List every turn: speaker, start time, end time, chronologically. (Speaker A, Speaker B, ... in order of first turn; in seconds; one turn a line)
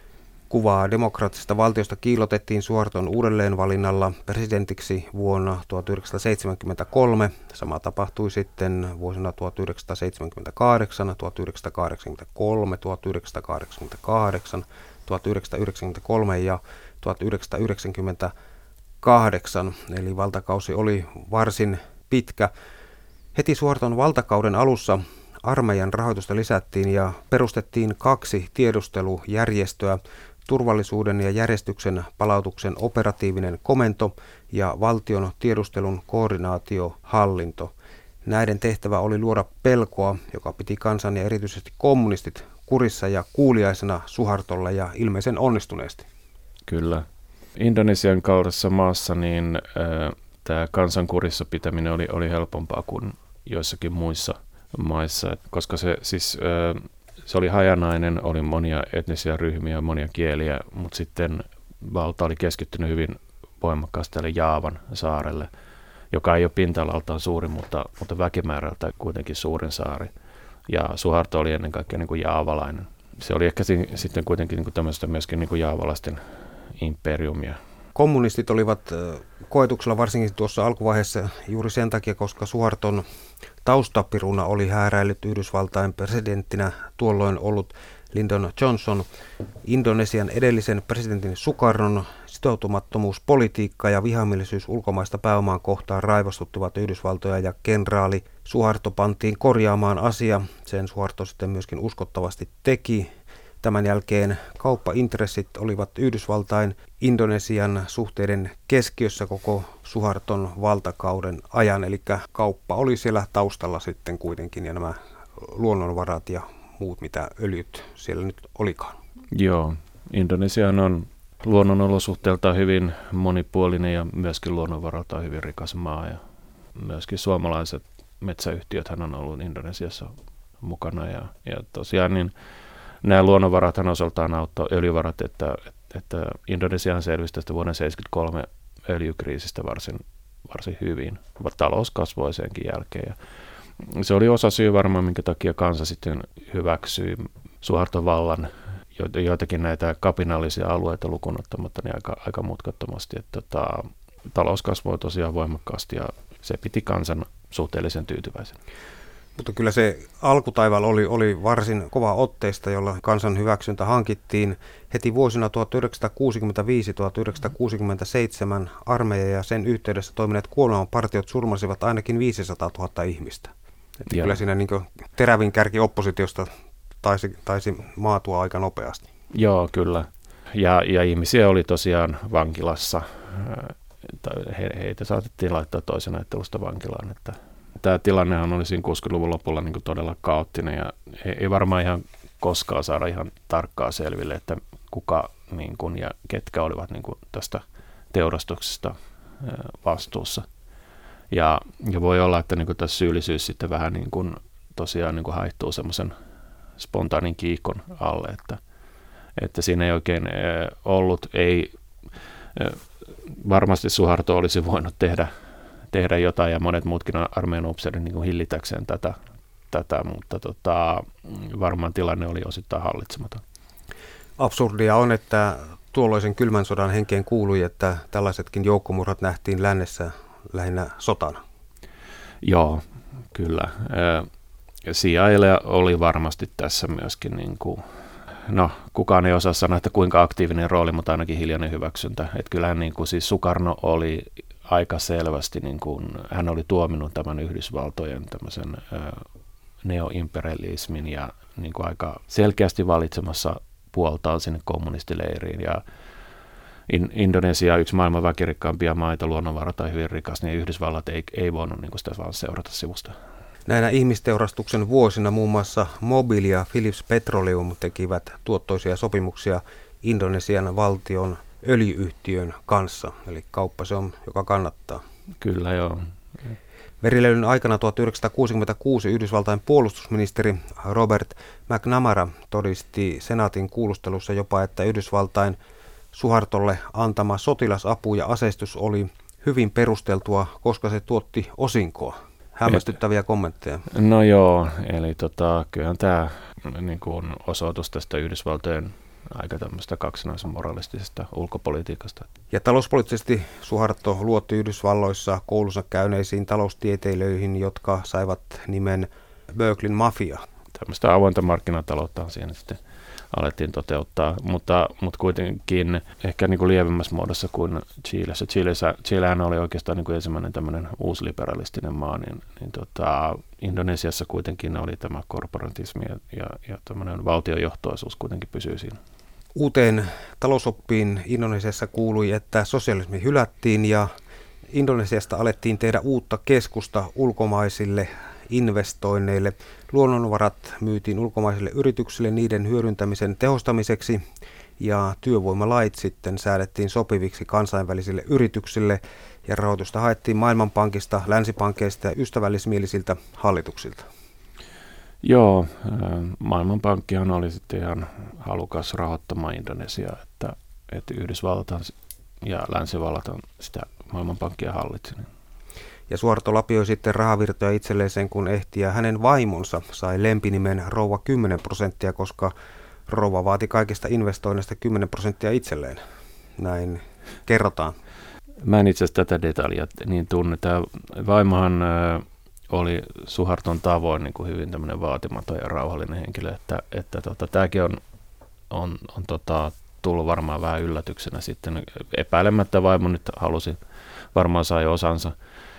Speaker A: 0.5-18.3
Speaker A: 19.0-22.5
Speaker A: 23.4-37.7
Speaker A: 38.2-46.1
Speaker B: 46.7-47.1
Speaker B: 47.6-65.5
Speaker B: 66.1-70.1
Speaker B: 70.7-76.2
Speaker B: 76.8-77.6
Speaker A: 78.0-83.0
Speaker A: 83.6-89.1
Speaker A: 89.6-103.1
Speaker A: 103.6-119.0
Speaker B: 119.3-126.2
Speaker B: 126.8-132.3
Speaker B: 133.0-143.2
Speaker B: 143.8-158.6
Speaker A: 159.4-176.5
Speaker B: 174.1-174.4
Speaker A: 177.0-179.1
Speaker B: 179.3-200.5
Speaker B: 201.3-206.1
Speaker B: 206.8-208.6
Speaker B: 209.4-211.7
Speaker B: 212.6-215.3
Speaker B: 215.9-219.2
Speaker B: 219.7-223.4
Speaker A: 224.4-231.4
Speaker B: 232.4-234.3
Speaker B: 234.9-237.8
Speaker B: 238.5-249.2
Speaker B: 249.8-255.8
Speaker B: 256.9-263.1
Speaker A: 263.7-275.0
Speaker B: 275.4-276.1
Speaker A: 277.0-285.6
Speaker A: 286.1-293.9
Speaker B: 293.9-302.3
Speaker A: 302.5-310.4
Speaker B: 310.8-312.8
Speaker B: 313.3-329.0
Speaker A: 329.6-334.1
Speaker A: 334.7-344.2
Speaker A: 344.8-354.1
Speaker B: 355.2-365.3
Speaker A: 366.1-372.5
Speaker A: 373.1-376.0
Speaker A: 376.6-378.0
Speaker B: 378.6-388.0
Speaker B: 388.7-393.8
Speaker B: 394.3-395.4